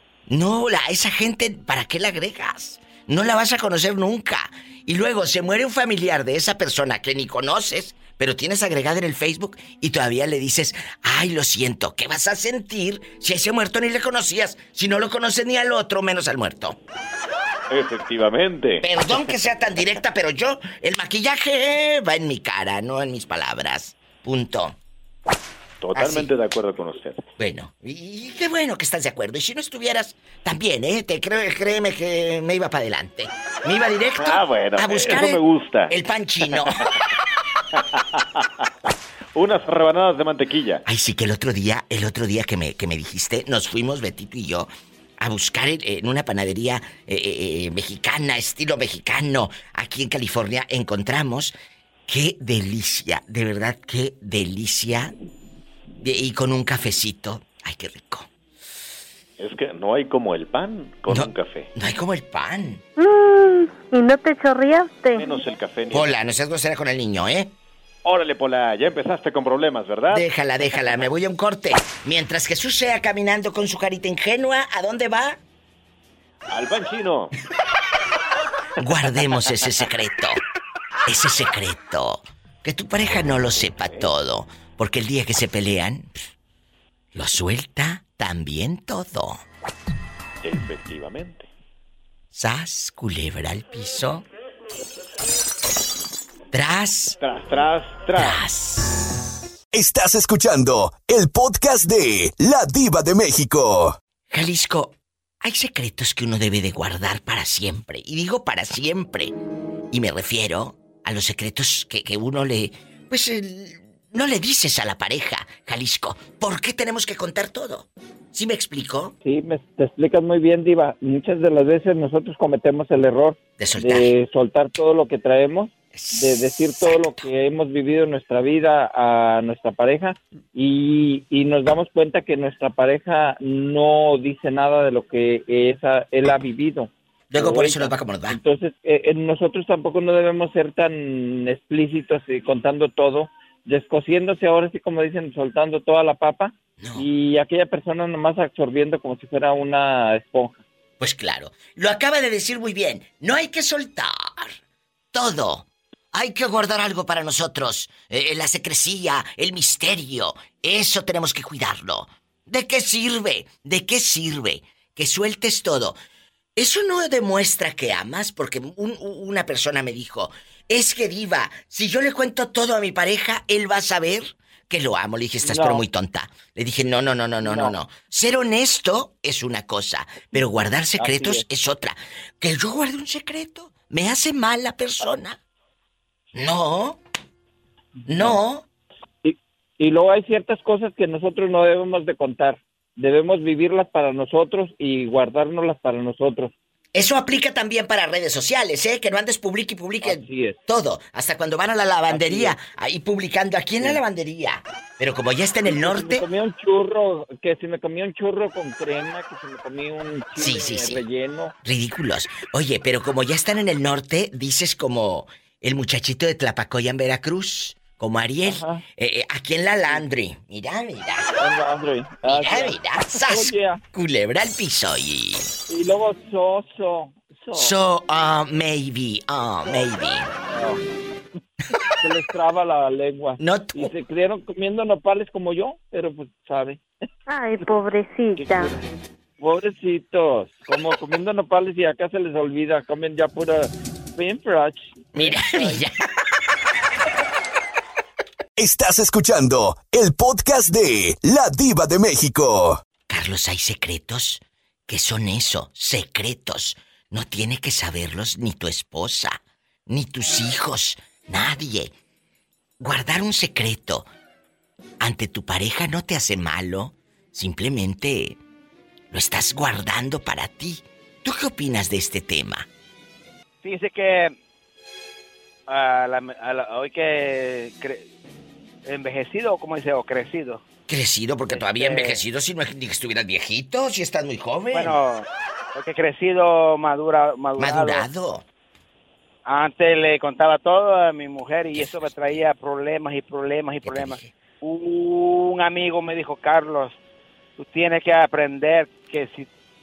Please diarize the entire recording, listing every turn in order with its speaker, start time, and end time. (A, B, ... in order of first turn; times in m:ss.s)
0:00.3-0:16.8 A
0:17.7-0:19.4 B
0:18.8-0:24.8 A
0:25.8-0:27.2 B
0:25.9-0:26.3 A
0:27.4-0:36.8 A
0:34.2-0:36.0 B
0:36.5-0:36.9 B
0:38.0-0:38.4 B
0:39.3-0:40.8 B
0:40.8-0:44.7 A
0:45.2-0:51.5 A
0:52.1-0:55.1 A
0:56.0-0:58.3 A
0:59.4-1:01.7 B
1:01.1-1:02.8 A
1:03.0-1:05.4 C
1:05.1-1:06.2 B
1:05.9-1:07.5 A
1:08.0-1:11.0 B
1:10.1-1:15.4 A
1:16.5-1:17.3 B
1:18.8-1:20.4 A
1:18.9-1:19.6 B
1:21.1-1:26.1 A
1:23.0-1:24.1 B
1:27.1-1:29.4 A
1:30.4-1:31.5 B
1:32.3-1:34.2 A
1:36.5-1:37.2 A
1:37.2-1:38.5 B
1:38.2-1:39.2 A
1:39.7-1:44.0 D
1:44.3-1:49.3 A
1:49.9-1:59.1 A
1:59.2-2:30.6 E
2:03.6-2:04.1 A
2:05.9-2:07.3 A
2:17.3-2:18.4 A
2:26.8-2:27.1 A
2:31.0-2:34.5 A
2:35.1-2:46.0 A
2:46.6-3:05.4 A
2:55.4-2:55.8 E
2:57.4-2:57.7 E
3:01.0-3:01.4 E
3:06.3-3:07.0 A
3:08.1-3:08.6 A
3:08.1-3:08.4 E
3:09.2-3:16.5 E
3:16.9-3:26.2 A
3:20.0-3:20.6 E
3:22.1-3:22.6 E
3:25.6-3:31.5 E
3:30.4-3:31.0 A
3:31.6-3:41.3 A
3:38.4-3:38.8 E
3:41.4-3:43.8 E
3:42.2-3:45.5 A
3:45.7-3:47.8 E
3:47.5-3:50.3 A
3:50.4-3:50.8 E
3:52.0-3:56.8 E
3:53.4-3:53.9 A
3:57.3-3:58.7 C
3:59.4-4:05.8 E
4:05.1-4:05.9 A
4:08.6-4:12.8 D
4:13.1-4:21.9 A
4:22.8-4:24.1 A
4:25.0-4:28.4 A
4:29.1-4:32.6 A
4:33.6-4:34.4 F
4:35.7-4:38.1 F
4:38.8-4:40.6 F
4:40.9-4:45.0 A
4:41.5-4:42.2 F
4:44.7-4:48.1 F
4:47.6-4:48.4 A
4:49.4-4:57.0 F
4:51.7-4:52.5 A
4:53.8-4:54.3 A
4:57.6-4:59.5 F